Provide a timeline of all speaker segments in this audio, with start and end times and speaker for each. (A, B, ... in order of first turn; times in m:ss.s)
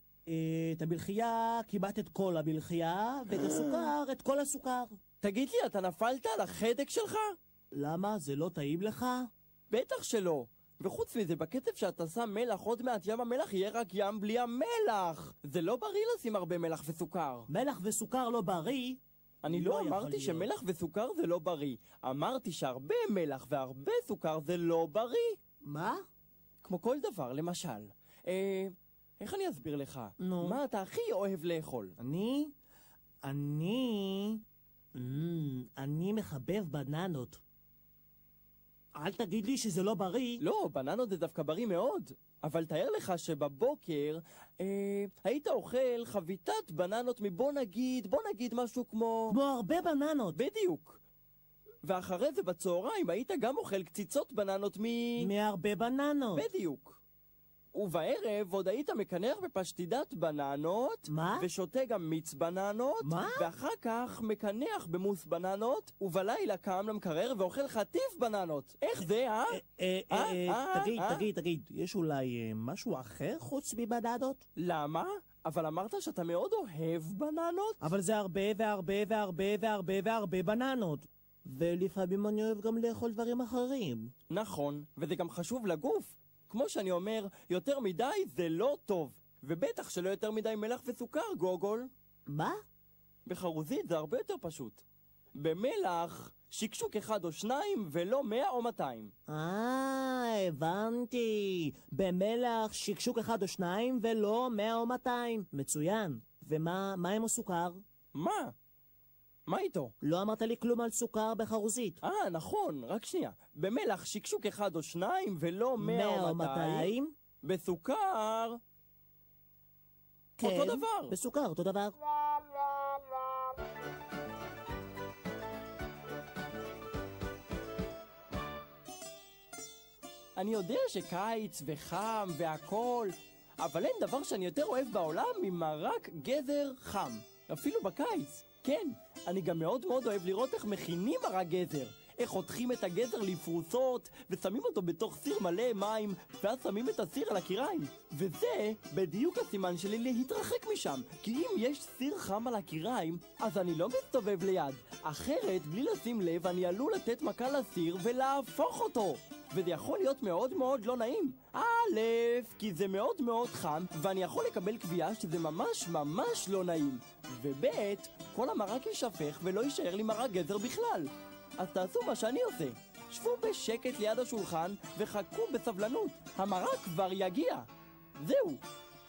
0:00.3-0:04.9 A
0:03.3-0:03.9 B
0:05.2-0:07.3 B
0:07.7-0:09.3 A
0:09.7-0:17.5 B
0:17.5-0:20.5 A
0:19.4-0:25.4 B
0:25.7-0:26.0 A
0:26.6-0:32.0 B
0:30.2-0:30.6 A
0:32.0-0:32.5 A
0:33.2-0:34.4 A
0:35.0-0:37.4 A
0:39.0-0:40.4 A
0:40.4-0:49.4 B
0:49.3-0:50.4 A
0:50.4-0:51.0 B
0:51.8-0:55.3 B
0:55.2-0:56.5 A
0:56.3-0:57.0 B
0:57.7-1:11.3 B
1:01.1-1:01.5 A
1:03.0-1:03.5 A
1:09.5-1:14.4 A
1:14.6-1:17.8 B
1:17.8-1:24.1 A
1:24.3-1:31.9 B
1:32.3-1:32.6 A
1:33.3-1:34.8 B
1:35.4-1:39.1 B
1:39.3-1:47.8 A
1:48.1-1:48.5 B
1:49.5-1:49.9 B
1:50.0-1:52.0 A
1:52.0-1:56.9 B
1:55.8-1:57.1 A
1:57.4-1:58.6 B
2:00.4-2:02.0 A
2:00.4-2:01.2 B
2:10.4-2:58.6 B